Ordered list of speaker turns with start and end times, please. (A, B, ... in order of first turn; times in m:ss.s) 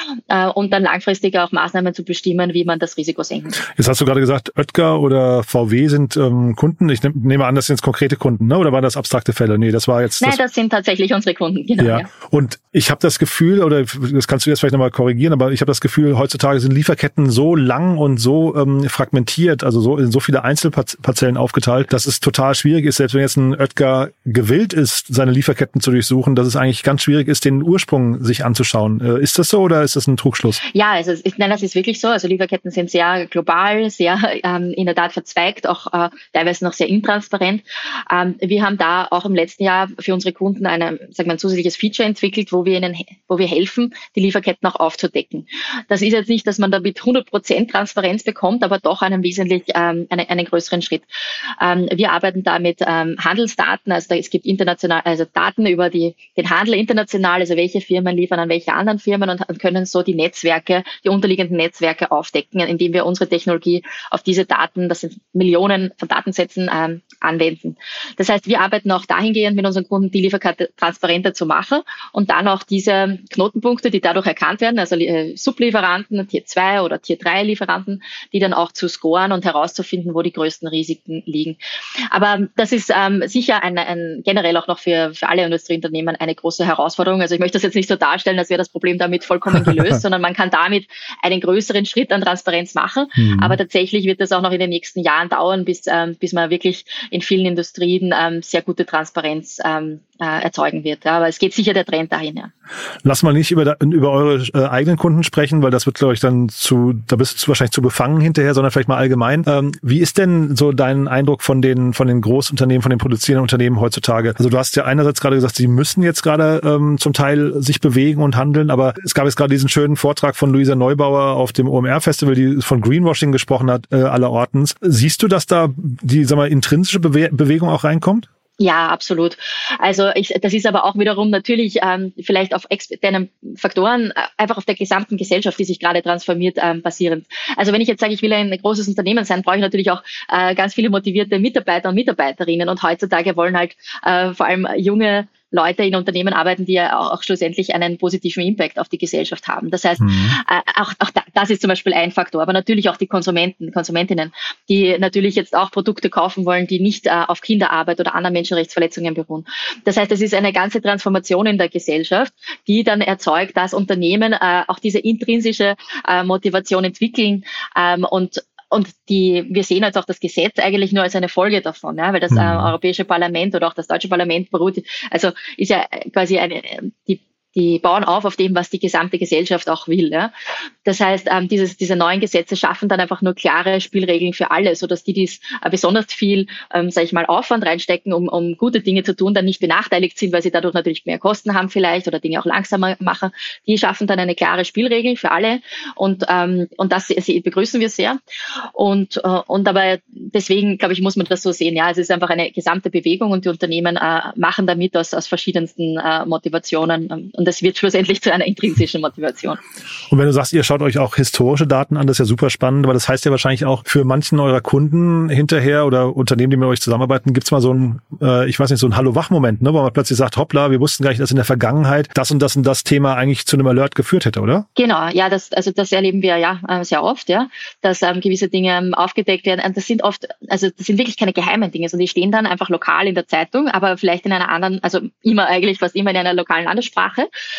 0:00.3-0:03.6 A
0:03.7-0:10.4 B
0:10.2-0:12.1 A
0:11.8-0:30.6 B
0:30.7-0:51.0 A
0:51.6-1:21.6 A
1:22.1-1:42.5 A
1:33.2-1:33.6 B
1:43.0-2:08.3 B
2:08.6-3:00.3 A
2:30.0-2:30.4 B
2:52.3-2:52.7 B
3:00.8-3:18.2 A
3:18.7-3:29.6 A
3:30.1-3:44.6 B
3:44.8-3:57.3 A